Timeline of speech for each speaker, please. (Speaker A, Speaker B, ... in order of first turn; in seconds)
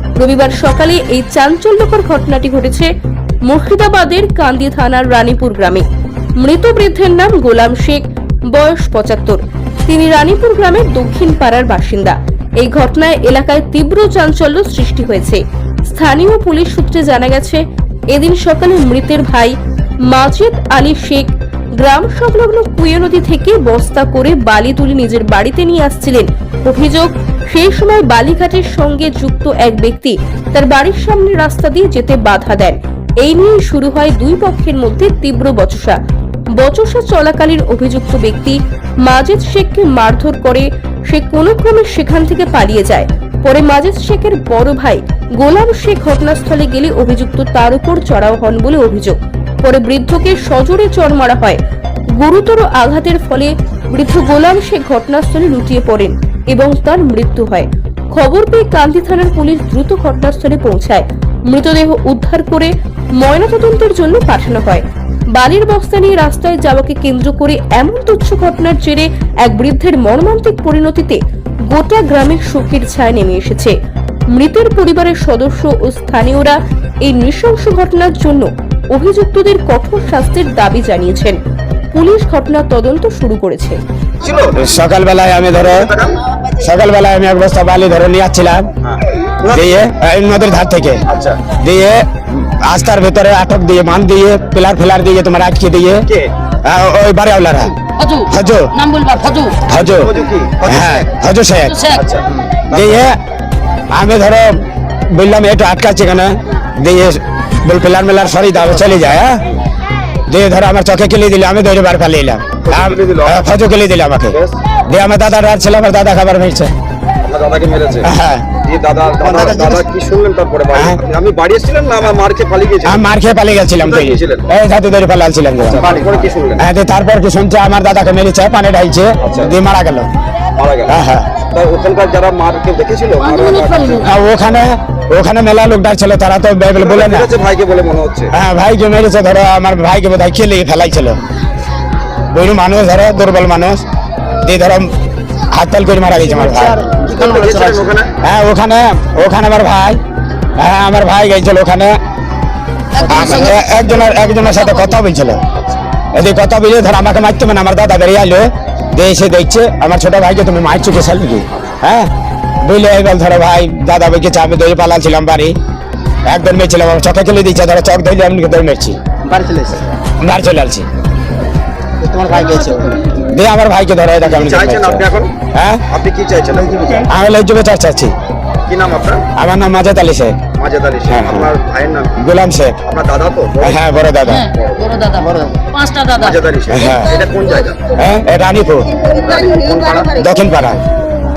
Speaker A: 0.2-2.9, 3.5-5.8, 6.4-19.5, 20.1-36.0, 36.6-51.6, 52.2-73.7, 74.3-81.4, 81.9-83.8
Speaker B: 84.2-84.6, 85.5-86.2, 88.8-89.7, 91.1-91.4, 99.7-101.0, 101.9-103.0, 112.6-113.5, 117.2-118.1, 118.6-123.0, 123.8-124.5, 125.7-126.6, 129.2-129.5, 130.6-130.9, 131.5-134.0, 136.8-138.3, 147.1-148.1, 174.2-175.3, 175.9-176.9, 178.7-179.2, 180.5-182.1, 182.8-183.9, 184.5-184.8, 186.1-187.9, 189.0-190.2
Speaker C: 84.6-85.8, 86.6-88.7, 89.5-96.0, 96.6-97.8, 98.3-98.7, 99.7-100.1, 100.6-101.8, 102.7-103.2, 103.9-109.4, 110.3-116.7, 118.0-118.5, 122.8-125.9, 126.6-130.1, 130.9-131.3, 134.0-137.3, 138.3-141.2, 142.3-143.8, 144.4-144.9, 145.5-146.8, 148.2-150.0, 150.6-152.0, 153.1-155.4, 156.1-162.1, 162.6-165.5, 166.2-169.0, 170.2-170.9, 173.1-175.8, 177.1-178.1, 179.3-180.4, 181.1-181.5, 182.2-182.8, 183.6-184.5, 186.7-187.2, 187.9-189.0, 190.1-190.8
Speaker D: 98.0-99.6, 101.6-102.0, 133.2-134.1, 152.9-154.9, 184.2-186.4
Speaker E: 119.2-119.9, 125.8-126.3, 146.3-147.9, 169.3-169.8, 172.0-173.1, 176.6-177.1, 185.3-185.6